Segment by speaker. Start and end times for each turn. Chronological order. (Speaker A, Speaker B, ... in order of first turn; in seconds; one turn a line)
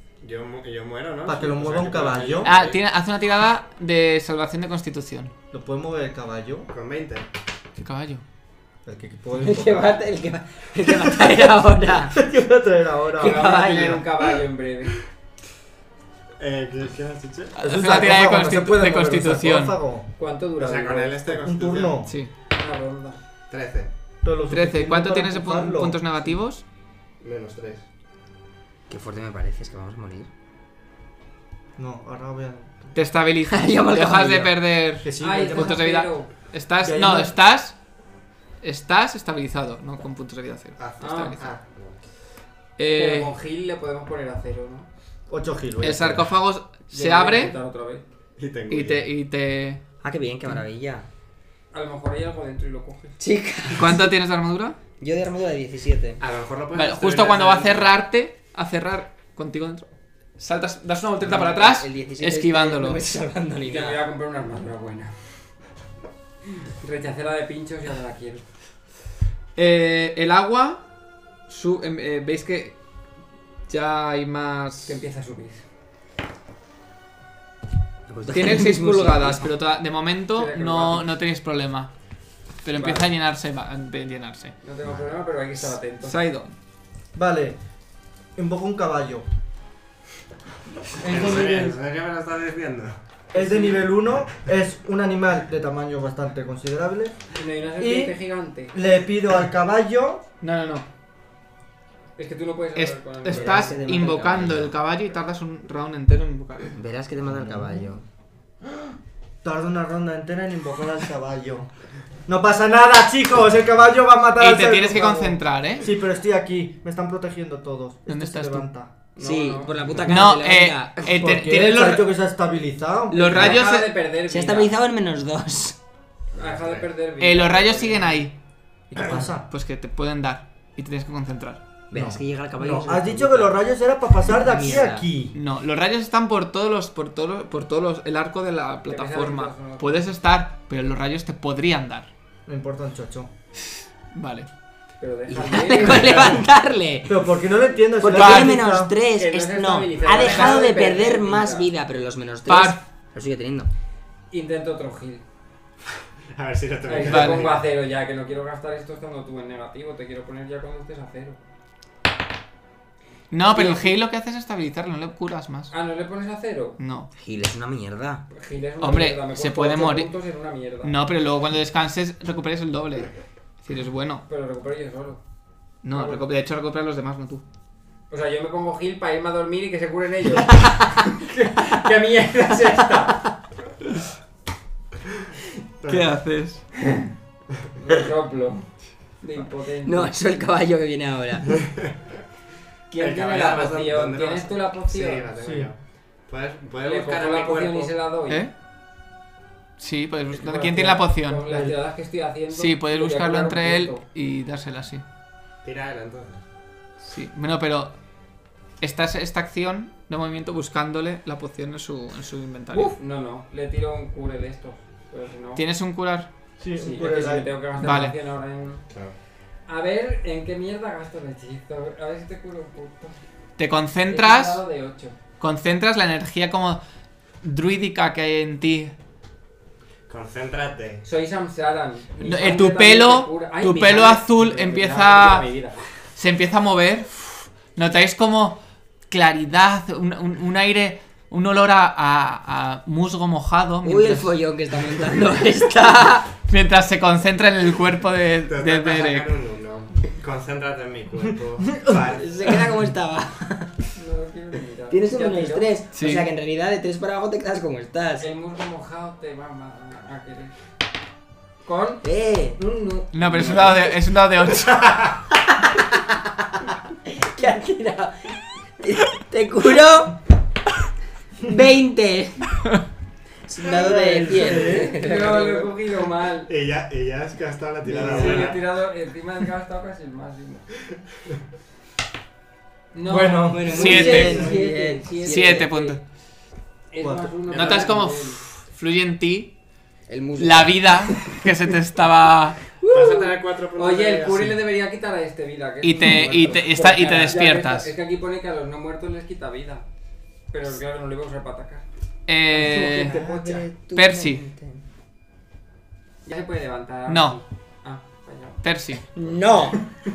Speaker A: 0.2-2.8
Speaker B: 1.3-2.5
Speaker C: 2.4-5.3
Speaker B: 5.5-6.7
Speaker A: 6.7-7.3
Speaker C: 7.8-8.2
Speaker B: 8.8-10.0
Speaker D: 9.4-12.2
Speaker B: 10.9-11.6
Speaker B: 12.1-14.0
Speaker D: 13.2-14.0
Speaker E: 13.2-15.0
Speaker A: 16.4-17.6
Speaker C: 17.6-19.8
Speaker B: 17.6-20.1
Speaker E: 20.2-21.3
Speaker A: 20.6-22.0
Speaker B: 21.3-22.1
Speaker C: 22.1-22.3
Speaker E: 22.5-23.2
Speaker A: 23.5-23.9
Speaker B: 24.2-26.3
Speaker C: 24.5-26.6
Speaker A: 27.2-27.8
Speaker D: 28.9-30.3
Speaker B: 31.8-33.0
Speaker C: 33.0-37.8
Speaker D: 33.5-34.6
Speaker B: 35.0-35.8
Speaker E: 35.2-36.3
Speaker B: 36.8-37.4
Speaker C: 38.6-41.5
Speaker A: 40.8-42.0
Speaker E: 41.0-41.5
Speaker C: 42.8-43.3
Speaker E: 43.0-44.9
Speaker B: 45.3-46.3
Speaker C: 45.8-47.5
Speaker E: 46.9-48.0
Speaker A: 48.4-49.1
Speaker C: 48.7-49.8
Speaker D: 50.0-51.1
Speaker E: 51.7-53.2
Speaker D: 53.2-54.1
Speaker C: 53.7-54.8
Speaker D: 55.0-56.2
Speaker A: 56.2-58.0
Speaker C: 56.7-63.0
Speaker D: 61.2-64.0
Speaker E: 63.6-65.5
Speaker E: 66.7-68.5
Speaker C: 69.6-70.8
Speaker C: 71.5-72.8
Speaker C: 73.7-75.0
Speaker E: 74.9-75.7
Speaker D: 78.1-79.5
Speaker C: 78.3-81.9
Speaker E: 80.3-81.1
Speaker C: 82.6-84.5
Speaker E: 82.8-83.1
Speaker E: 84.6-86.2
Speaker C: 86.0-86.6
Speaker B: 87.1-87.6
Speaker B: 88.4-89.3
Speaker E: 91.0-91.8
Speaker A: 91.0-93.0
Speaker B: 93.3-97.2
Speaker E: 93.3-93.9
Speaker E: 97.4-98.8
Speaker B: 97.8-98.2
Speaker B: 98.7-100.2
Speaker C: 100.4-100.9
Speaker E: 102.2-103.8
Speaker C: 102.8-106.8
Speaker D: 103.3-104.8
Speaker D: 106.8-108.0
Speaker B: 107.3-107.9
Speaker B: 109.4-111.7
Speaker B: 112.3-118.9
Speaker C: 114.4-115.9
Speaker C: 118.1-118.7
Speaker E: 119.2-119.8
Speaker D: 119.2-121.2
Speaker A: 119.8-120.2
Speaker C: 120.1-122.1
Speaker B: 121.2-123.4
Speaker C: 123.1-123.9
Speaker E: 123.3-124.8
Speaker D: 123.3-123.6
Speaker D: 124.3-125.8
Speaker A: 126.3-126.9
Speaker E: 126.3-128.3
Speaker C: 127.2-128.3
Speaker B: 128.9-129.5
Speaker C: 129.5-131.6
Speaker D: 131.9-133.6
Speaker B: 131.9-135.4
Speaker D: 134.3-135.1
Speaker C: 135.3-142.1
Speaker E: 138.9-140.1
Speaker B: 142.5-143.3
Speaker C: 144.1-144.5
Speaker E: 145.0-146.4
Speaker D: 145.3-147.3
Speaker B: 147.1-148.9
Speaker D: 148.0-153.7
Speaker C: 148.1-148.6
Speaker E: 149.1-151.7
Speaker C: 150.3-150.6
Speaker C: 152.5-152.8
Speaker E: 154.3-155.2
Speaker A: 156.3-157.7
Speaker E: 156.9-161.4
Speaker C: 157.0-157.5
Speaker C: 163.3-165.7
Speaker E: 163.5-164.0
Speaker E: 165.7-166.8
Speaker C: 166.8-167.1
Speaker D: 167.2-168.2
Speaker E: 168.3-171.0
Speaker C: 168.8-170.1
Speaker C: 170.8-173.1
Speaker C: 173.6-174.2
Speaker E: 174.3-175.2
Speaker C: 175.8-177.4
Speaker E: 175.9-176.2
Speaker E: 178.1-183.3
Speaker D: 180.5-180.8
Speaker A: 185.8-186.1
Speaker C: 185.8-186.7
Speaker E: 187.8-190.1
Speaker D: 189.8-191.6
Speaker E: 192.9-195.3
Speaker A: 192.9-197.9
Speaker B: 195.4-195.7
Speaker E: 196.8-198.5
Speaker C: 199.8-201.4
Speaker E: 200.3-204.0
Speaker B: 201.5-201.8
Speaker C: 202.5-205.0
Speaker A: 205.6-206.4
Speaker C: 207.0-208.0
Speaker C: 208.8-213.0
Speaker E: 212.7-215.6
Speaker C: 215.6-216.3
Speaker B: 216.6-217.6
Speaker E: 216.8-218.9
Speaker C: 217.8-218.2
Speaker A: 218.9-219.2
Speaker E: 219.7-223.2
Speaker C: 223.6-224.6
Speaker E: 224.1-225.2
Speaker C: 225.4-226.8
Speaker C: 227.4-228.9
Speaker A: 230.1-231.0
Speaker E: 231.0-235.9
Speaker C: 232.2-235.5
Speaker C: 236.2-244.4
Speaker D: 243.8-246.3
Speaker C: 246.3-249.3
Speaker A: 248.5-252.6
Speaker B: 251.7-252.0
Speaker D: 252.1-253.8
Speaker E: 253.9-255.8
Speaker D: 254.9-258.3
Speaker C: 255.9-256.3
Speaker E: 258.2-260.6
Speaker E: 261.6-262.1
Speaker D: 262.0-262.6
Speaker E: 262.6-263.8
Speaker C: 263.1-265.1
Speaker A: 264.8-265.1
Speaker D: 265.4-266.1
Speaker D: 267.1-270.2
Speaker D: 271.4-272.6
Speaker D: 273.5-275.7
Speaker B: 273.7-275.0
Speaker E: 274.4-276.5
Speaker A: 276.5-278.6
Speaker E: 277.9-280.7
Speaker D: 278.0-278.4
Speaker B: 278.0-278.5
Speaker E: 282.9-285.9
Speaker B: 283.1-284.7
Speaker D: 283.5-285.9
Speaker C: 283.7-284.5
Speaker C: 285.2-286.0
Speaker E: 286.9-288.4
Speaker B: 287.0-287.4
Speaker A: 287.5-287.9
Speaker C: 287.5-289.6
Speaker D: 290.1-291.4
Speaker C: 290.4-292.6
Speaker A: 292.9-294.5
Speaker E: 292.9-299.9
Speaker D: 293.0-293.3
Speaker C: 295.8-297.9
Speaker B: 296.1-296.6
Speaker E: 300.5-301.9
Speaker C: 302.3-303.2
Speaker E: 302.5-303.7
Speaker D: 302.5-304.8
Speaker C: 303.9-304.5
Speaker E: 306.2-308.6
Speaker C: 307.1-307.4
Speaker C: 308.6-309.1
Speaker D: 309.1-309.9